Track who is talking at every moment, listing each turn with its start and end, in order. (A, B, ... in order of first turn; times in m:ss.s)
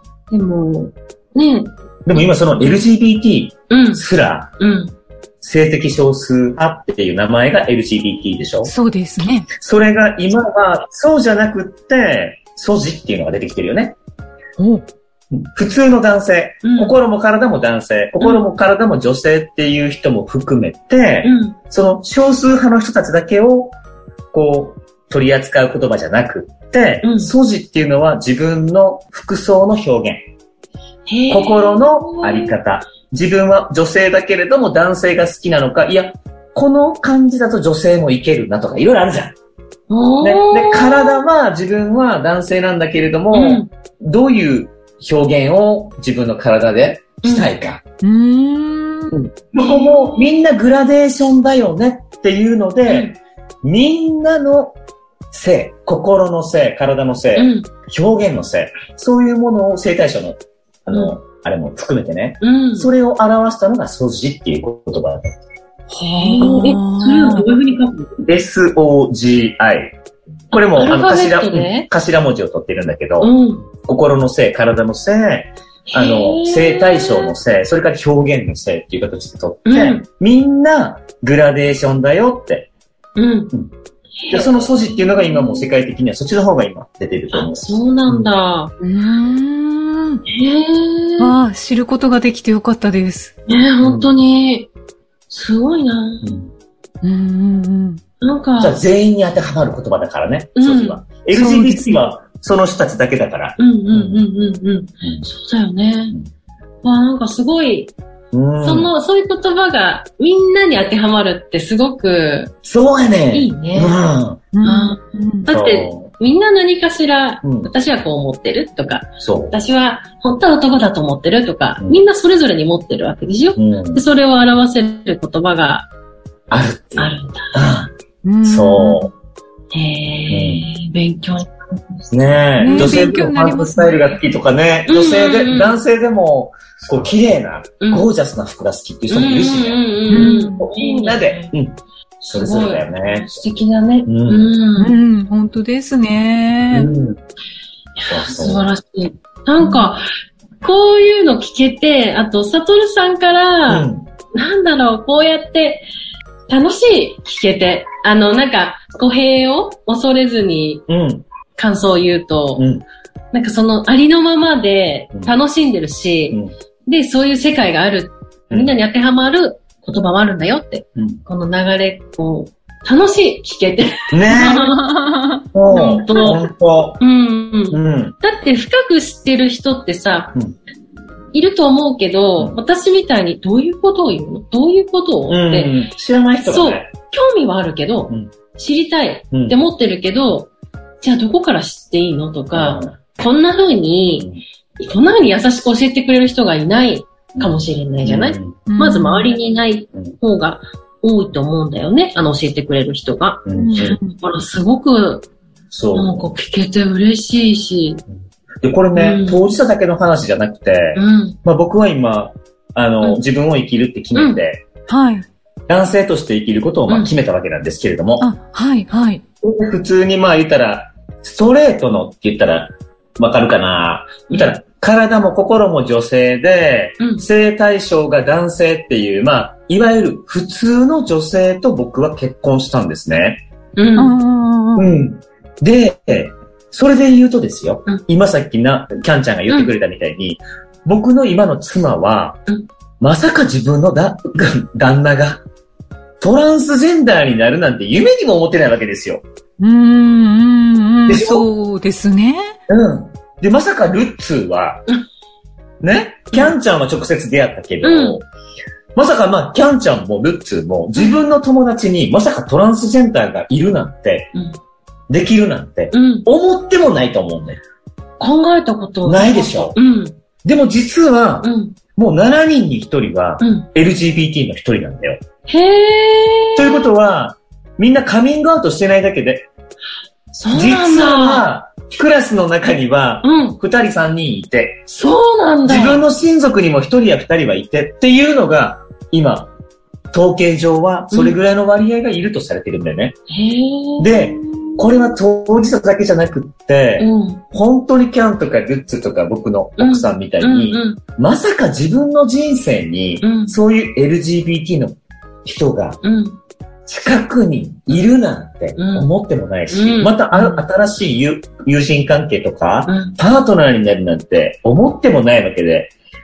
0:00.3-0:02.2 A
0:02.1-0:04.6 B
0:03.7-0:04.0 A
0:04.6-0:04.9 A
0:05.4-0:08.7 B
0:08.7-0:09.5 C
0:09.6-0:14.0 B
0:14.6-0:14.8 C
0:15.3-0:23.8 B
0:16.6-0:17.0 A
0:21.2-0:21.6 A
0:24.3-0:30.2 B
0:27.0-0:27.3 A
0:31.1-0:32.6 A
0:31.3-0:39.4 B
0:39.9-0:41.2 A
0:40.2-0:47.8 B
0:43.3-0:43.7 A
0:47.2-0:47.5 A
0:48.0-0:49.2 C
0:49.1-0:53.1 B
0:49.6-0:50.3 A
0:52.9-0:53.2 A
0:53.6-0:54.7 B
0:55.3-1:05.4 B
0:57.4-0:57.7 A
1:02.4-1:02.9 A
1:06.0-1:07.5 C
1:06.1-1:08.2 A
1:08.3-1:10.0 B
1:10.5-1:22.7 B
1:10.8-1:11.9 A
1:13.2-1:13.7 A
1:15.9-1:17.4 A
1:19.7-1:20.1 A
1:23.2-1:23.5 A
1:24.2-1:25.8 A
1:24.3-1:28.3 B
1:27.3-1:28.7 A
1:28.8-1:30.2 C
1:30.3-1:31.4 A
1:31.2-1:33.3 C
1:33.5-1:34.7 A
1:33.8-1:34.1 B
1:35.3-1:36.4 A
1:36.2-1:36.5 B
1:37.0-1:38.0 C
1:38.2-1:38.8 A
1:38.6-1:44.2 B
1:40.6-1:41.0 A
1:41.3-1:41.9 C
1:43.6-1:46.2 A
1:46.8-1:47.9 A
1:48.3-1:48.9 B
1:48.6-1:52.5 A
1:52.6-1:54.5 B
1:53.3-1:54.0 A
1:54.5-1:55.5 C
1:54.6-2:05.9 A
1:55.5-1:56.1 B
1:57.4-1:57.7 B
1:59.2-1:59.6 B
2:03.6-2:04.0 B
2:06.5-2:09.1 B
2:07.0-2:07.6 A
2:08.2-2:09.1 C
2:09.7-2:11.5 A
2:10.3-2:10.7 B
2:12.1-2:23.3 B
2:12.6-2:14.2 C
2:12.7-2:13.2 A
2:14.9-2:15.8 A
2:17.8-2:18.1 A
2:19.1-2:21.6 A
2:20.1-2:20.6 C
2:22.2-2:25.0 A
2:24.1-2:24.4 B
2:24.8-2:26.9 C
2:26.7-2:27.2 B
2:28.0-2:30.1 A
2:28.1-2:28.7 B
2:30.6-2:35.9 A
2:33.7-2:34.1 B
2:36.5-2:40.8 A
2:40.9-2:41.3 B
2:41.6-2:42.7 A
2:42.6-2:42.8 B
2:43.3-2:54.9 A
2:54.1-2:54.8 B
2:54.6-2:55.4 C
2:55.5-2:57.0 B
2:55.7-2:56.4 A
2:57.0-3:00.4 A
2:57.7-2:58.2 B
3:01.3-3:05.8 A
3:05.3-3:06.9 B
3:06.4-3:10.5 A
3:11.0-3:25.3 A
3:12.6-3:12.9 B
3:17.4-3:18.6 B
3:18.7-3:19.3 C
3:23.5-3:24.0 B
3:23.6-3:24.2 C
3:25.7-3:26.3 B
3:25.9-3:28.0 A
3:28.6-3:34.6 B
3:29.0-3:29.5 A
3:31.0-3:31.4 A
3:34.2-3:34.4 A
3:34.9-3:35.3 C
3:35.7-3:38.3 B
3:36.9-3:37.1 A
3:38.2-3:39.2 C
3:39.4-3:53.4 B
3:44.3-3:44.5 A
3:47.0-3:47.2 A
3:53.8-3:54.2 A
3:54.0-3:54.9 C
3:54.8-4:02.4 B
4:03.0-4:05.4 B
4:06.2-4:09.2 B
4:09.6-4:12.6 C
4:11.1-4:11.5 B
4:12.7-4:14.8 B
4:15.8-4:18.3 B
4:17.8-4:18.2 A
4:19.0-4:24.3 B
4:25.1-4:27.6 B
4:25.9-4:26.3 A
4:28.2-4:30.2 A
4:29.0-4:29.8 B
4:30.4-4:35.2 B
4:31.4-4:31.8 A
4:33.4-4:33.7 A
4:35.5-4:36.9 A
4:36.6-4:39.5 B
4:40.4-4:41.5 A
4:40.5-4:44.9 B
4:43.2-4:43.6 A
4:44.9-4:46.0 A
4:45.7-4:49.5 B
4:50.1-4:53.2 B
4:51.1-4:51.4 A
4:53.3-4:55.2 A
4:54.0-5:06.0 B
4:57.0-4:57.4 A
4:59.8-5:01.0 A
5:03.2-5:03.6 A
5:06.0-5:06.4 A
5:06.9-5:15.9 B
5:08.8-5:09.1 A
5:09.7-5:10.7 A
5:12.9-5:13.2 A